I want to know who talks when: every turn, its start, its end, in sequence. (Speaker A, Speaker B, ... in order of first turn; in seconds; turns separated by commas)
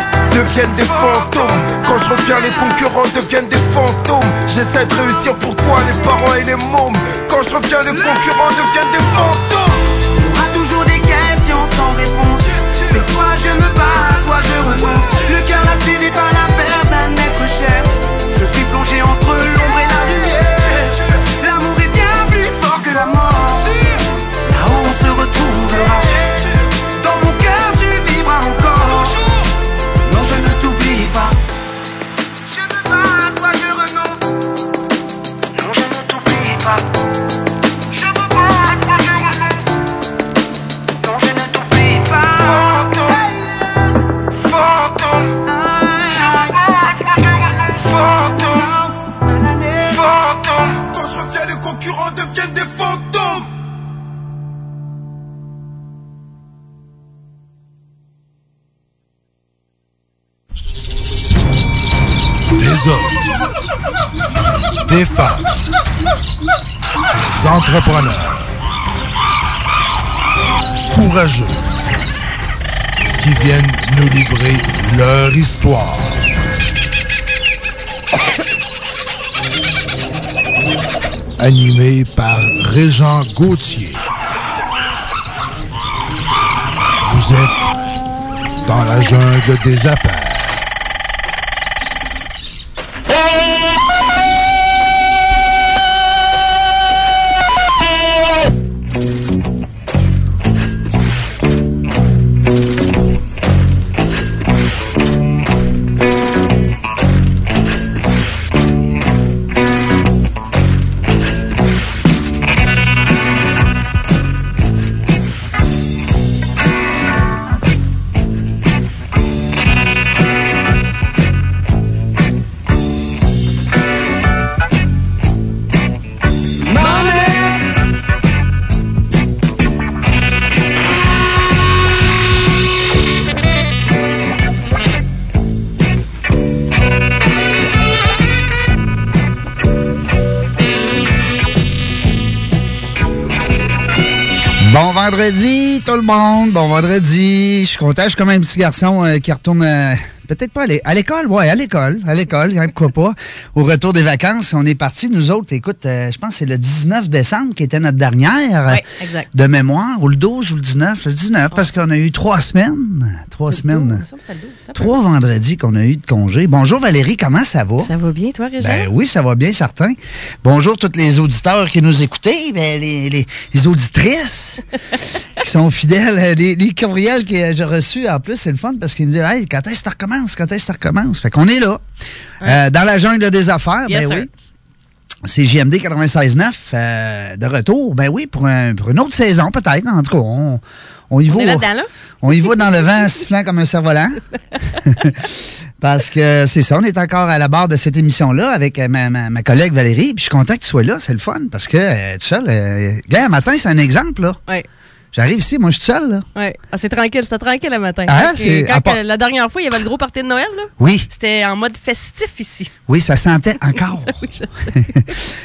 Speaker A: 0.3-9.8, Speaker B: 10.1-23.7, Speaker B: 24.4-26.2, Speaker B: 27.0-29.2, Speaker B: 30.0-31.4, Speaker B: 33.1-34.0, Speaker B: 35.6-36.8, Speaker B: 41.0-42.4, Speaker A: 42.4-43.1, Speaker A: 44.5-45.4, Speaker B: 45.6-46.5, Speaker A: 47.8-48.5, Speaker B: 49.4-49.9, Speaker A: 49.9-53.5, Speaker C: 62.5-63.2, Speaker C: 64.9-65.5, Speaker C: 67.1-68.6, Speaker C: 70.9-71.6, Speaker C: 73.2-76.3, Speaker C: 81.4-84.0, Speaker C: 87.0-87.7, Speaker C: 88.6-90.7, Speaker D: 144.6-164.0, Speaker E: 158.7-159.3, Speaker E: 163.5-164.9, Speaker D: 164.7-167.9, Speaker E: 167.8-168.9, Speaker D: 168.6-174.6, Speaker D: 175.4-181.8, Speaker D: 182.4-184.3, Speaker E: 183.9-184.3, Speaker D: 185.2-191.7, Speaker E: 191.3-191.9, Speaker D: 192.2-194.2, Speaker D: 194.8-204.4, Speaker D: 205.1-206.3, Speaker E: 206.3-212.7, Speaker D: 208.1-209.0, Speaker D: 210.8-211.1, Speaker D: 212.9-214.2, Speaker E: 214.1-214.9, Speaker D: 214.8-215.1